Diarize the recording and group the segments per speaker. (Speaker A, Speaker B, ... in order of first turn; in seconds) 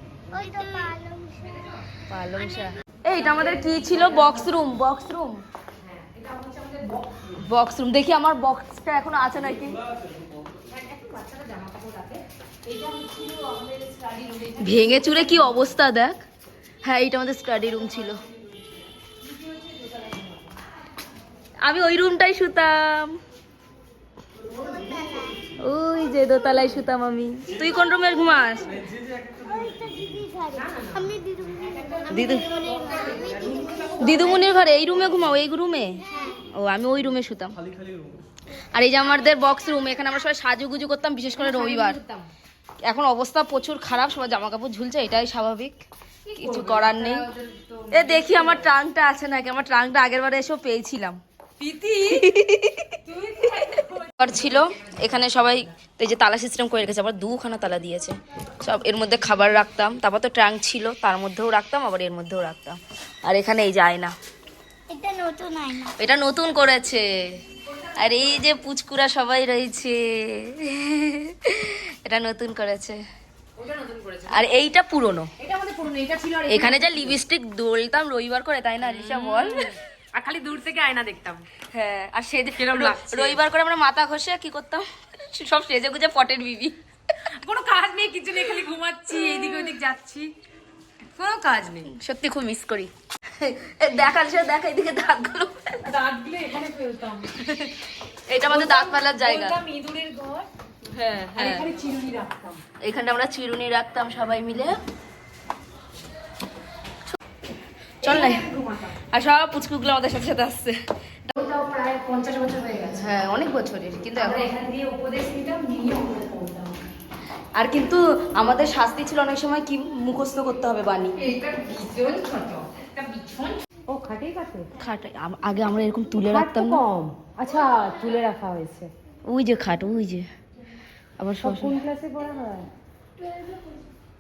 Speaker A: 0.3-1.6, 24.6-25.6, 28.5-34.5, 36.1-36.5, 64.9-65.9, 133.2-133.9
Speaker B: 1.4-1.9, 3.1-4.7, 5.8-7.4, 10.6-15.8, 19.2-20.6, 30.5-34.6, 41.4-42.3, 46.3-48.8, 51.6-52.3, 53.0-55.0, 67.7-68.5, 73.6-74.5, 75.4-77.2, 78.8-81.5, 82.6-83.4, 87.3-90.3, 91.2-91.9, 95.9-97.8, 98.4-100.5, 101.4-102.6, 108.0-109.0, 111.3-113.2, 114.2-116.8, 121.2-124.7, 126.2-128.9, 131.4-132.7
Speaker C: 2.1-5.4, 7.5-9.8, 14.6-16.2, 16.8-18.2, 21.6-23.2, 25.6-28.9, 32.1-32.5, 34.0-37.6, 38.7-42.0, 42.9-45.8, 46.4-47.2, 47.9-51.2, 52.0-53.0, 54.2-64.1, 66.0-67.4, 68.0-73.0, 74.3-75.3, 76.5-79.7, 81.7-86.7, 89.2-89.7, 92.0-95.9, 98.3-99.6, 100.9-101.7, 102.8-104.8, 108.0-108.4, 109.1-111.3, 112.9-114.5, 117.5-121.2, 124.8-126.8, 129.3-130.3, 131.2-131.8